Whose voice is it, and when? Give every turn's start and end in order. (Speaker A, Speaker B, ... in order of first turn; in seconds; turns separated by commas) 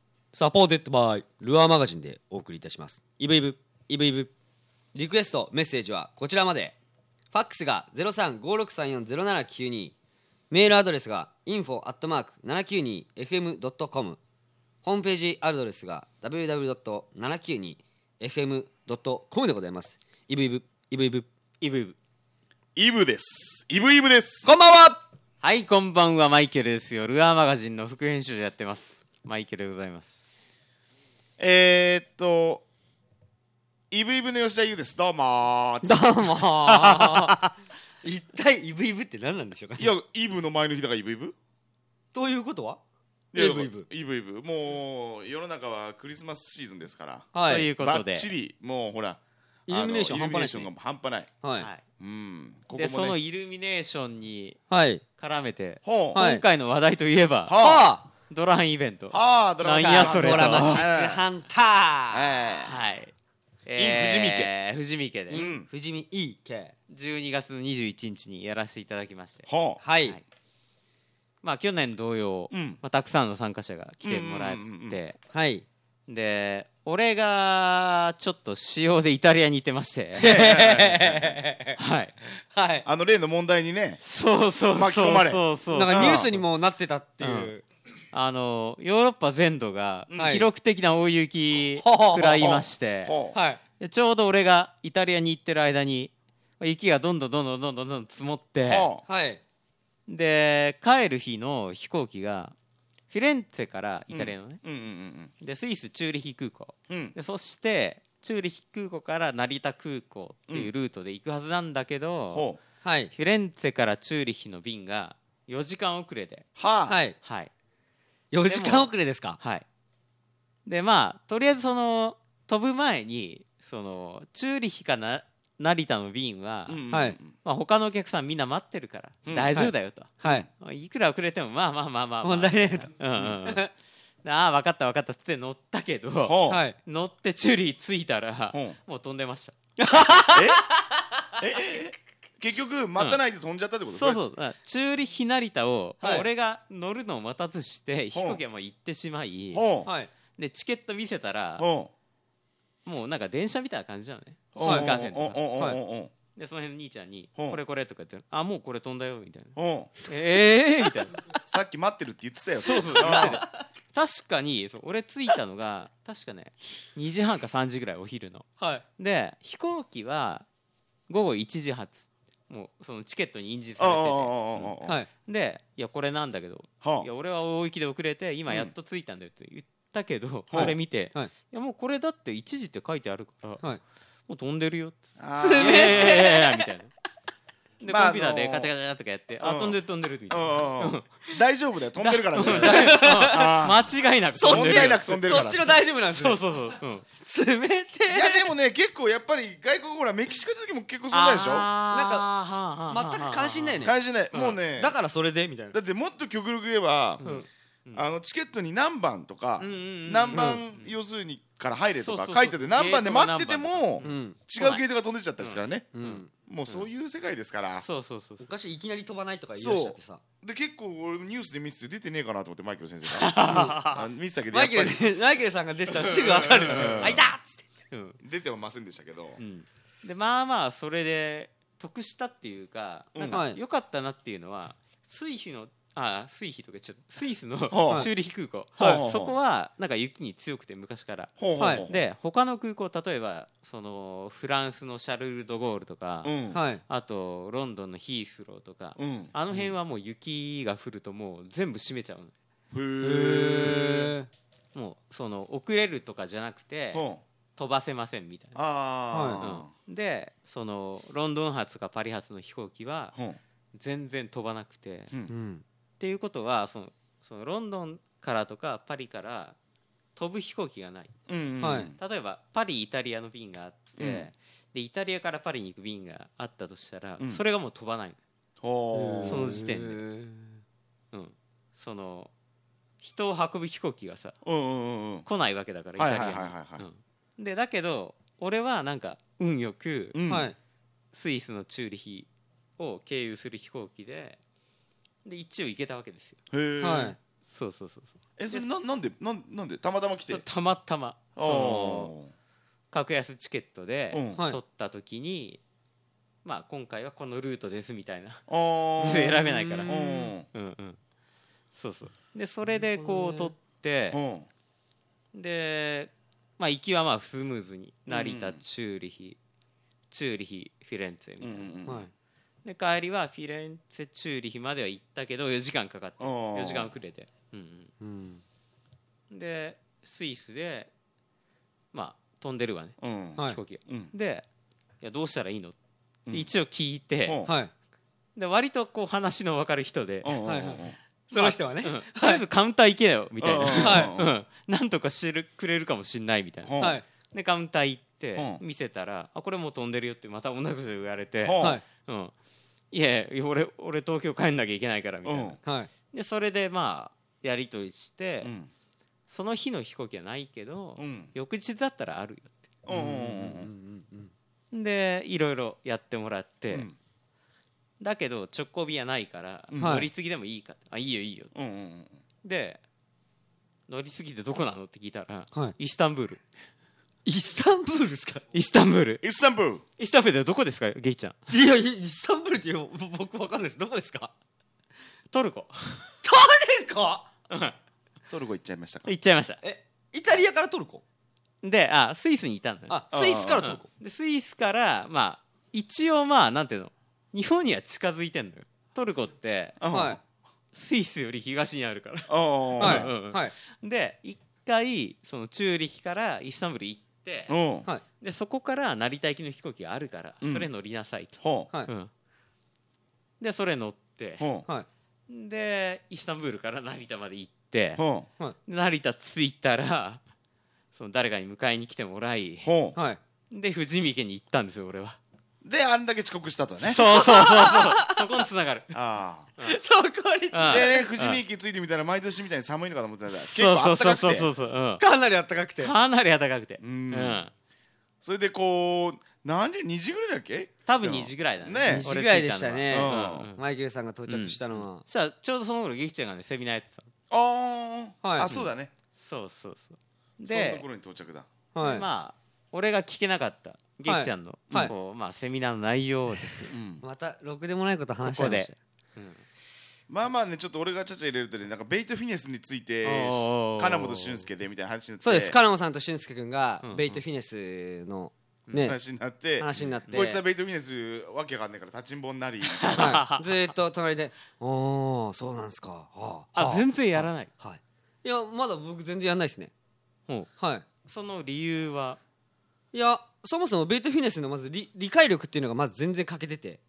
Speaker A: 0.3-4.3, Speaker A: 4.9-6.8, Speaker A: 7.3-9.9, Speaker A: 10.5-14.2, Speaker A: 14.8-21.3, Speaker B: 21.6-21.9, Speaker C: 22.8-24.5, Speaker A: 24.4-25.0, Speaker B: 25.4-30.1, Speaker C: 31.4-32.6, Speaker C: 33.9-36.2, Speaker A: 35.8-37.4, Speaker B: 36.9-37.4, Speaker A: 38.0-39.9, Speaker C: 39.8-41.3, Speaker A: 42.1-42.8, Speaker C: 43.3-51.3, Speaker A: 43.3-43.9, Speaker A: 47.3-47.7, Speaker B: 47.5-48.3, Speaker A: 49.7-50.7, Speaker A: 51.4-51.7, Speaker B: 51.6-51.8, Speaker C: 52.0-53.2, Speaker B: 52.7-54.6, Speaker A: 54.7-55.0, Speaker B: 55.2-57.6, Speaker C: 55.8-56.2, Speaker A: 56.1-56.4, Speaker C: 57.4-57.9, Speaker A: 57.6-58.1, Speaker B: 58.3-60.8, Speaker C: 59.1-61.2, Speaker A: 59.6-62.6, Speaker C: 62.1-62.8, Speaker B: 62.6-63.1, Speaker B: 63.6-65.5, Speaker C: 63.8-64.5, Speaker A: 65.3-66.7, Speaker C: 65.3-65.7, Speaker B: 66.9-69.5, Speaker C: 69.5-69.8, Speaker A: 69.8-70.2, Speaker B: 71.4-75.2, Speaker C: 72.5-72.8, Speaker C: 74.0-75.0, Speaker A: 75.3-75.6, Speaker B: 76.1-80.5, Speaker C: 80.2-81.4, Speaker A: 80.5-81.8, Speaker B: 81.8-82.2, Speaker A: 82.5-82.8, Speaker C: 82.8-84.0, Speaker B: 84.0-86.3, Speaker C: 84.7-86.3, Speaker A: 85.7-87.6, Speaker B: 87.2-87.5, Speaker B: 88.1-93.2, Speaker C: 90.1-90.5, Speaker A: 90.1-90.5, Speaker A: 91.7-92.4, Speaker C: 92.2-93.4, Speaker A: 93.3-93.6, Speaker B: 93.8-98.9, Speaker C: 98.6-99.0, Speaker A: 99.0-99.4, Speaker B: 100.1-102.5, Speaker B: 103.1-104.6, Speaker C: 104.1-105.3, Speaker B: 105.4-112.5, Speaker C: 106.9-107.1, Speaker C: 112.3-112.6, Speaker A: 112.8-113.1, Speaker B: 113.1-116.5, Speaker C: 116.6-117.0, Speaker A: 116.9-117.2, Speaker B: 117.2-117.5, Speaker A: 118.3-119.4, Speaker B: 118.5-119.6, Speaker B: 120.7-133.7, Speaker C: 126.7-127.3, Speaker A: 126.9-127.2, Speaker C: 129.2-129.6, Speaker A: 129.5-130.5, Speaker C: 130.2-130.5, Speaker A: 132.2-133.7, Speaker B: 134.2-139.5, Speaker C: 136.2-136.6, Speaker A: 136.5-136.8, Speaker C: 138.5-138.8, Speaker A: 139.8-141.8, Speaker C: 140.3-140.6, Speaker C: 141.4-144.3, Speaker B: 143.9-149.6, Speaker C: 148.1-148.4, Speaker C: 149.5-149.9, Speaker A: 149.8-150.1, Speaker B: 150.3-151.7, Speaker C: 151.6-151.9, Speaker B: 152.8-155.7, Speaker C: 154.5-156.1, Speaker A: 154.6-154.9, Speaker B: 156.3-161.2, Speaker C: 159.6-159.9, Speaker C: 161.4-163.4, Speaker B: 162.5-170.4, Speaker A: 162.9-163.4, Speaker A: 168.6-168.8, Speaker B: 171.1-183.7, Speaker C: 173.8-175.0, Speaker C: 176.8-177.1, Speaker C: 180.5-180.8, Speaker A: 180.6-181.3, Speaker B: 184.3-185.0, Speaker C: 185.2-186.2, Speaker A: 185.4-186.7, Speaker B: 185.5-186.9, Speaker B: 187.8-191.4, Speaker C: 187.9-188.7, Speaker C: 189.4-189.8, Speaker C: 190.3-193.9, Speaker B: 192.0-195.4, Speaker A: 192.4-193.5, Speaker A: 194.3-196.4, Speaker C: 194.4-195.8, Speaker B: 196.1-197.1, Speaker A: 197.2-198.5, Speaker C: 198.1-201.7, Speaker B: 201.1-204.6, Speaker A: 201.9-202.3, Speaker A: 202.9-203.9, Speaker C: 203.8-205.0, Speaker A: 204.7-205.8, Speaker C: 205.7-207.2, Speaker B: 207.2-208.1, Speaker C: 207.9-217.8, Speaker B: 209.6-210.9, Speaker A: 210.3-210.6, Speaker B: 212.0-214.8, Speaker A: 214.0-214.4, Speaker B: 215.4-216.9, Speaker A: 215.9-216.3, Speaker B: 217.7-218.5, Speaker A: 218.4-220.2, Speaker C: 219.6-225.0, Speaker B: 223.1-224.1, Speaker A: 223.4-223.8, Speaker A: 224.5-227.6, Speaker C: 226.0-227.3, Speaker B: 226.3-227.2, Speaker B: 227.9-228.2, Speaker C: 228.2-229.4, Speaker B: 229.4-252.3, Speaker C: 233.1-233.4, Speaker A: 233.3-233.6, Speaker C: 237.7-238.1, Speaker C: 238.8-239.4, Speaker C: 241.4-242.1, Speaker A: 241.6-241.8, Speaker C: 246.2-246.6, Speaker A: 246.5-246.8, Speaker C: 249.0-249.7, Speaker C: 252.7-254.1, Speaker A: 253.0-254.3, Speaker B: 254.7-257.0, Speaker C: 256.9-257.2, Speaker B: 257.6-258.6, Speaker C: 258.5-259.7, Speaker A: 259.1-259.4, Speaker B: 259.4-263.1, Speaker C: 263.1-263.4, Speaker B: 263.7-265.1, Speaker A: 265.3-265.6, Speaker B: 266.0-269.6, Speaker B: 270.1-271.1, Speaker C: 271.3-272.0, Speaker A: 271.6-271.9, Speaker B: 272.0-278.2, Speaker C: 274.0-274.3, Speaker C: 278.6-279.5, Speaker A: 278.9-280.6, Speaker B: 279.2-280.0, Speaker B: 281.1-282.3, Speaker B: 283.0-284.4, Speaker C: 284.4-285.2, Speaker B: 285.2-290.3, Speaker C: 285.9-286.9, Speaker C: 290.1-290.5, Speaker A: 290.3-290.6, Speaker B: 291.1-294.4, Speaker B: 295.2-296.4, Speaker C: 296.5-297.1, Speaker A: 296.8-297.2, Speaker B: 297.4-298.7, Speaker C: 298.4-300.4, Speaker B: 300.3-302.1, Speaker C: 301.4-302.3, Speaker B: 302.9-305.6, Speaker C: 304.1-304.4, Speaker A: 304.3-304.6, Speaker B: 306.4-308.4, Speaker C: 308.5-310.5, Speaker B: 309.0-310.0, Speaker A: 309.0-310.3, Speaker B: 310.5-311.0, Speaker B: 311.7-314.2, Speaker A: 312.8-313.5, Speaker C: 314.1-314.5, Speaker B: 315.3-319.4, Speaker C: 318.1-318.6, Speaker B: 320.1-321.7, Speaker C: 321.4-322.1, Speaker B: 322.6-327.9, Speaker C: 326.2-327.0, Speaker A: 328.0-328.4, Speaker B: 329.3-330.9, Speaker B: 331.9-334.4, Speaker C: 333.0-334.1, Speaker B: 335.0-335.8, Speaker B: 336.3-337.4, Speaker C: 337.2-337.5, Speaker A: 337.4-337.7, Speaker B: 338.4-340.4, Speaker C: 340.2-341.0, Speaker A: 340.4-342.4, Speaker B: 341.3-352.3, Speaker C: 343.4-344.3, Speaker A: 343.7-344.1, Speaker C: 346.6-347.0, Speaker A: 346.8-347.1, Speaker C: 348.4-348.6, Speaker C: 351.4-351.8, Speaker A: 351.6-351.8, Speaker B: 352.9-358.5, Speaker C: 355.2-355.6, Speaker A: 355.6-355.9, Speaker C: 358.4-358.7, Speaker B: 359.3-362.7, Speaker C: 361.0-361.3, Speaker C: 362.8-363.7, Speaker A: 362.9-364.3, Speaker B: 364.7-366.9, Speaker B: 368.0-371.5, Speaker C: 369.7-370.1, Speaker A: 369.8-370.1, Speaker C: 371.5-372.2, Speaker B: 372.4-372.8, Speaker B: 373.9-376.4, Speaker A: 377.2-378.4, Speaker B: 378.5-379.2, Speaker C: 379.2-379.8, Speaker B: 380.0-381.4, Speaker A: 381.5-384.3, Speaker B: 385.3-386.1, Speaker A: 386.2-387.3, Speaker B: 387.5-387.8, Speaker C: 388.3-389.1, Speaker B: 389.0-389.6, Speaker A: 389.6-391.0, Speaker B: 391.6-393.0, Speaker A: 392.9-393.9, Speaker C: 393.1-393.6, Speaker B: 393.6-399.8, Speaker C: 399.8-400.2, Speaker A: 399.9-400.2, Speaker B: 400.7-407.5, Speaker C: 402.3-403.1, Speaker A: 402.8-403.5, Speaker C: 407.5-407.9, Speaker B: 408.2-412.1, Speaker C: 410.4-410.7, Speaker C: 411.4-411.7, Speaker B: 413.4-414.5, Speaker C: 414.4-414.7, Speaker B: 415.3-418.0, Speaker C: 417.9-418.3, Speaker B: 418.7-420.2, Speaker B: 420.9-422.7, Speaker C: 422.6-423.0, Speaker B: 423.5-425.2, Speaker C: 425.6-427.2, Speaker B: 426.8-428.9, Speaker A: 427.2-428.2, Speaker C: 428.9-429.5, Speaker A: 429.6-431.1, Speaker B: 430.5-431.4, Speaker C: 430.6-434.5, Speaker B: 433.4-435.0, Speaker A: 435.0-435.9, Speaker B: 435.8-437.5, Speaker C: 436.8-437.4, Speaker C: 438.2-442.1, Speaker B: 440.9-443.6, Speaker A: 441.8-445.1, Speaker C: 442.9-443.5, Speaker B: 444.3-447.1, Speaker C: 447.3-448.9, Speaker A: 448.2-448.5, Speaker B: 448.4-450.9, Speaker C: 450.4-451.5, Speaker A: 451.7-452.1, Speaker B: 451.8-456.8, Speaker A: 454.0-454.9, Speaker C: 456.7-457.0, Speaker A: 457.0-458.8, Speaker B: 458.2-459.4, Speaker C: 460.1-465.6, Speaker B: 463.0-464.5, Speaker A: 465.2-469.0, Speaker B: 466.8-467.2, Speaker C: 468.8-473.2, Speaker A: 469.6-470.4, Speaker B: 472.6-473.7, Speaker A: 473.0-479.7, Speaker B: 476.5-477.5, Speaker A: 480.6-480.8, Speaker B: 481.0-482.2, Speaker A: 482.9-486.8